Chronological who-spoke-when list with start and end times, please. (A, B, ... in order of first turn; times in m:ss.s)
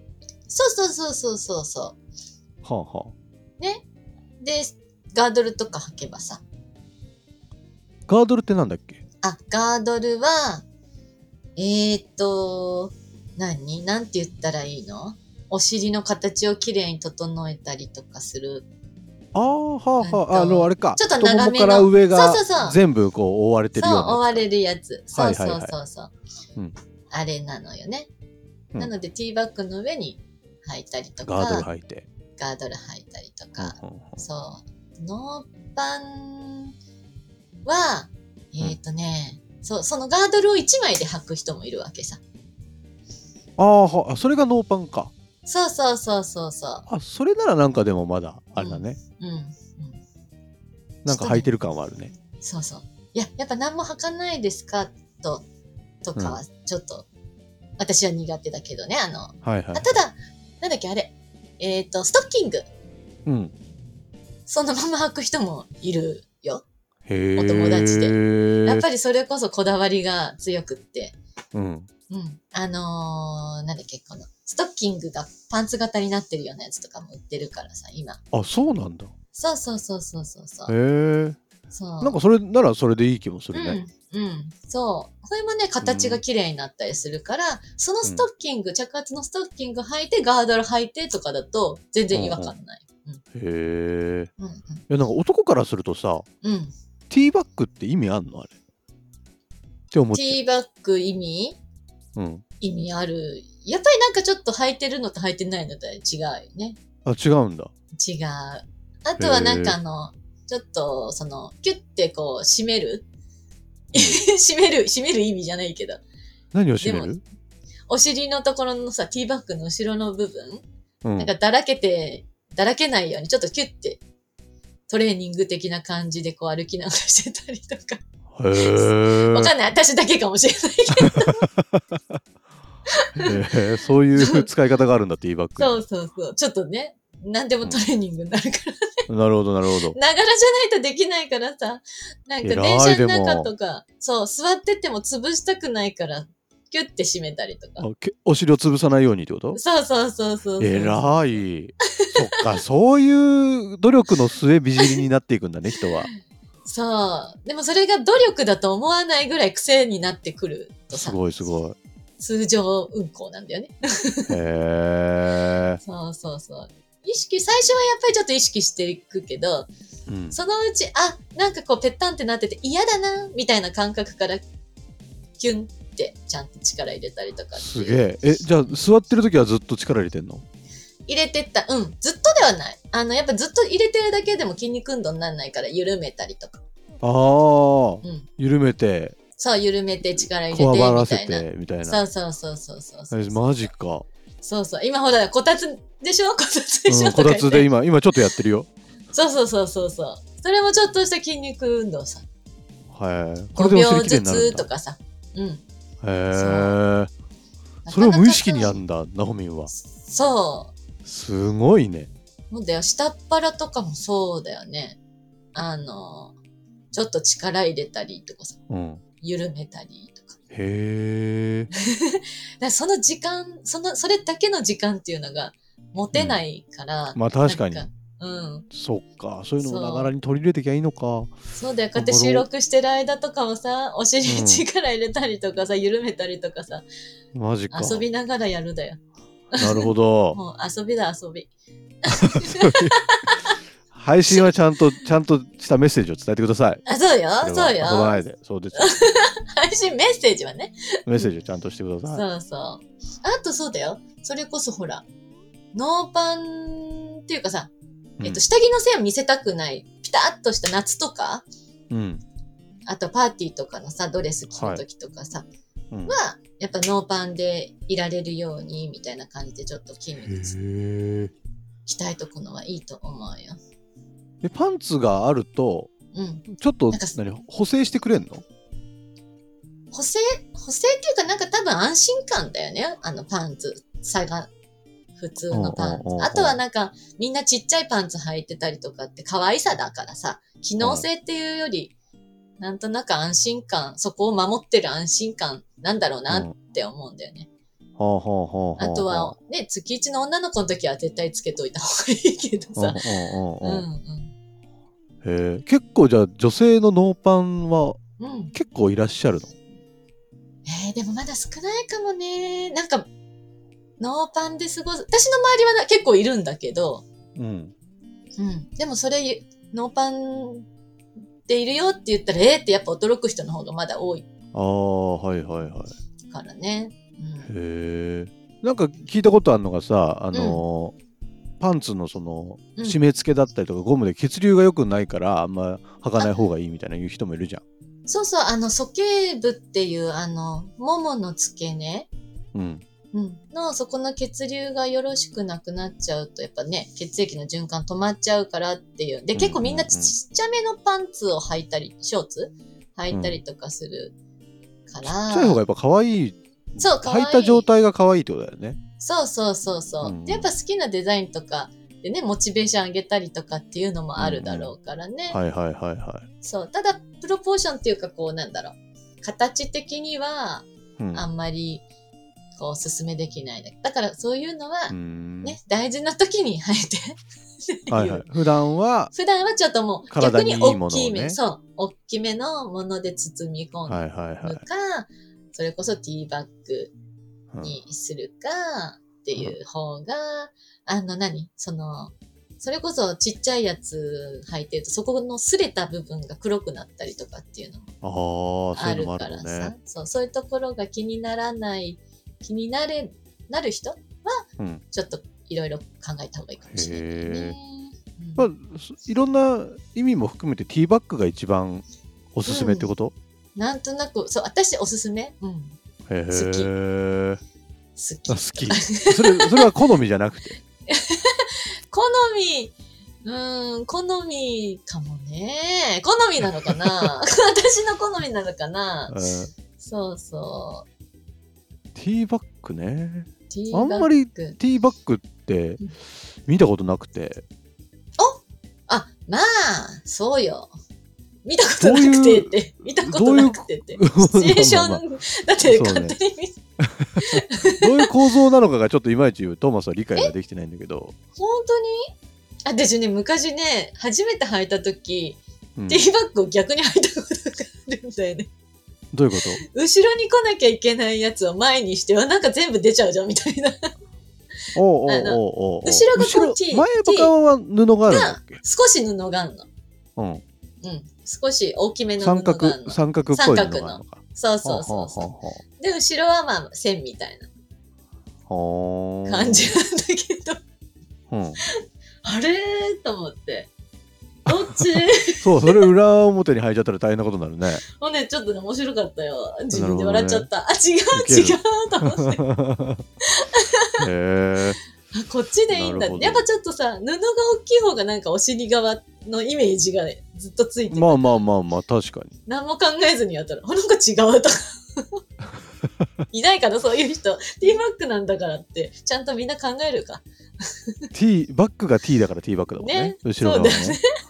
0:00.5-0:02.0 A
0:02.6-0:03.1 B
0:04.4-0:06.4 A
0:08.1-0:09.0 B
0:09.2-0:10.6 A
0:11.6-0:18.7 A
0:19.3-0:24.4 B
0:20.0-0:22.8 A
0:23.7-0:26.1 A
0:25.1-0:25.8 B
0:27.1-0:28.1 A
0:28.8-0:31.7 A
0:31.2-0:32.1 B
0:32.4-0:36.7 A
0:33.6-0:34.2 B
0:37.6-0:42.2 A
0:43.6-0:45.1 B
0:45.4-0:46.9 A
0:46.9-0:49.0 B
0:48.6-0:50.0 A
0:51.0-0:51.5 A
0:51.0-0:52.1 B
0:52.4-0:55.4 A
0:56.0-0:57.0 A
0:57.8-1:02.7 A
0:59.4-0:59.9 B
1:03.2-1:03.5 B
1:04.5-1:06.6 A
1:07.1-1:08.8 B
1:07.4-1:11.1 A
1:11.5-1:11.9 B
1:12.1-1:18.2 A
1:18.3-1:19.1 B
1:19.3-1:20.7 A
1:20.7-1:21.4 B
1:21.7-1:22.2 A
1:22.0-1:23.8 B
1:23.5-1:33.2 A
1:25.8-1:26.2 B
1:32.1-1:32.5 B
1:33.3-1:34.3 B
1:34.4-1:34.8 A
1:34.9-1:36.2 B
1:36.4-1:36.7 A
1:37.1-1:38.5 B
1:39.9-1:40.4 B
1:40.1-1:41.6 A
1:42.2-1:42.4 B
1:42.6-1:46.8 A
1:47.0-1:47.7 B
1:48.0-1:53.1 A
1:49.2-1:49.8 B
1:53.9-1:56.0 A
1:53.9-1:54.2 B
1:56.5-1:57.2 B
1:56.8-1:57.1 A
1:57.9-2:00.6 A
2:01.0-2:01.3 B
2:01.2-2:04.0 A
2:04.9-2:08.0 A
2:08.3-2:09.5 B
2:08.5-2:11.5 A
2:11.0-2:12.0 B
2:12.9-2:13.5 A
2:13.2-2:15.8 B
2:14.2-2:14.5 A
2:15.6-2:19.0 A
2:19.1-2:20.0 B
2:19.9-2:27.9 A
2:22.4-2:23.5 B
2:27.8-2:29.6 B
2:29.5-2:31.4 A
2:30.6-2:36.1 B
2:32.0-2:32.4 A
2:34.8-2:35.0 A
2:36.6-2:41.2 A
2:40.9-2:41.8 B
2:42.2-2:44.3 A
2:44.3-2:45.8 B
2:45.8-2:49.7 A
2:50.1-2:50.4 B
2:50.3-2:54.4 A
2:55.4-2:58.8 A
2:57.5-3:00.4 B
3:01.1-3:06.6 A
3:07.0-3:09.2 B
3:08.0-3:08.3 A
3:09.4-3:13.7 A
3:10.2-3:12.0 B
3:13.1-3:14.0 B
3:14.4-3:17.7 A
3:16.9-3:18.7 B
3:19.1-3:22.2 A
3:22.9-3:24.7 B
3:23.6-3:25.6 A
3:26.0-3:27.1 B
3:26.3-3:26.8 A
3:27.8-3:28.8 A
3:27.9-3:29.7 B
3:29.7-3:30.7 A
3:31.0-3:32.1 B
3:32.5-3:35.0 A
3:35.5-3:36.3 A
3:36.9-3:38.6 A
3:38.7-3:39.0 B
3:39.2-3:40.4 A
3:40.5-3:41.7 B
3:41.7-3:48.7 A
3:46.1-3:46.4 B
3:47.1-3:47.8 B
3:48.7-3:51.3 B
3:49.6-3:50.1 A
3:51.5-3:56.8 A
3:51.9-3:52.5 B
3:54.2-3:54.6 B
3:57.3-3:58.0 B
3:57.7-3:59.0 A
3:59.5-4:01.5 A
3:59.6-4:00.4 B
4:02.0-4:03.6 A
4:02.1-4:02.9 B
4:03.9-4:06.8 B
4:04.3-4:04.5 A
4:06.8-4:11.3 A
4:07.4-4:08.9 B
4:11.1-4:12.2 B
4:12.1-4:15.0 A
4:15.7-4:17.7 A
4:18.2-4:18.4 B
4:18.2-4:21.4 A
4:21.9-4:22.2 B
4:22.9-4:25.5 A
4:24.5-4:24.8 B
4:25.9-4:26.2 B
4:26.1-4:30.6 A
4:30.2-4:31.3 B
4:31.8-4:33.6 A
4:34.4-4:35.9 B
4:36.1-4:37.1 A
4:36.5-4:38.4 B
4:39.9-4:44.5 A
4:45.2-4:51.9 A
4:45.5-4:46.6 B
4:50.8-4:51.1 B
4:52.6-4:57.5 A
4:58.0-4:59.4 B
4:58.8-5:04.3 A
5:02.8-5:03.8 B
5:05.2-5:08.0 B
5:08.2-5:08.5 A
5:08.5-5:09.5 B
5:10.6-5:13.1 A
5:14.0-5:17.0 A
5:17.4-5:17.7 B
5:18.4-5:20.7 A
5:21.4-5:24.2 A
5:24.5-5:25.9 B
5:26.3-5:27.5 A
5:27.5-5:30.9 B
5:30.3-5:30.6 A
5:31.6-5:37.6 B
5:38.1-5:42.1 A
5:42.5-5:42.8 B
5:43.1-5:54.1 A
5:49.3-5:50.1 B
5:53.1-5:53.4 B
5:54.9-5:55.6 A
5:55.0-5:58.8 B
5:56.8-5:57.7 A
5:59.0-6:05.4 A
6:00.0-6:00.5 B
6:04.2-6:04.7 B
6:05.3-6:06.2 B
6:06.4-6:11.8 A
6:11.0-6:11.2 B
6:12.6-6:17.1 A
6:14.9-6:15.6 B
6:17.7-6:18.2 A
6:17.9-6:19.1 B
6:19.1-6:26.9 A
6:20.1-6:21.4 B
6:23.9-6:24.6 B
6:27.5-6:27.8 B
6:27.6-6:37.9 A
6:38.0-6:39.7 B
6:38.7-6:48.5 A
6:46.7-6:47.6 B
6:48.4-6:53.1 B
6:52.4-6:52.9 A
6:53.5-6:55.8 A
6:56.1-6:57.4 B
6:56.3-6:56.7 A
6:58.0-6:59.7 A
6:58.3-7:00.6 B
7:00.9-7:09.1 A
7:06.6-7:07.1 B
7:09.1-7:09.5 B
7:09.8-7:10.8 A
7:11.9-7:15.8 B
7:13.5-7:14.6 A
7:16.4-7:17.4 B
7:18.2-7:20.7 A
7:21.4-7:26.6 A
7:21.8-7:25.0 B
7:25.6-7:26.2 B
7:26.8-7:31.1 B
7:27.2-7:28.1 A
7:31.4-7:32.1 A
7:32.6-7:38.5 A
7:35.8-7:36.1 B
7:39.1-7:39.6 B
7:39.6-7:43.9 A
7:44.7-7:48.6 B
7:45.0-7:47.3 A
7:48.1-7:49.7 A
7:50.2-7:50.4 B
7:50.8-7:57.5 A
7:52.2-7:55.6 B
7:58.5-7:59.8 B
7:59.2-8:00.6 A
8:01.3-8:01.6 B
8:01.6-8:03.7 A
8:04.4-8:05.9 A
8:05.4-8:07.8 B
8:07.8-8:12.4 A
8:09.7-8:10.5 B
8:11.1-8:13.0 B
8:13.3-8:14.0 A
8:14.0-8:14.8 B
8:15.1-8:21.4 A
8:15.7-8:16.4 B
8:20.9-8:22.3 B
8:22.4-8:25.2 A
8:26.3-8:30.9 A
8:31.1-8:34.0 B
8:32.8-8:34.0 A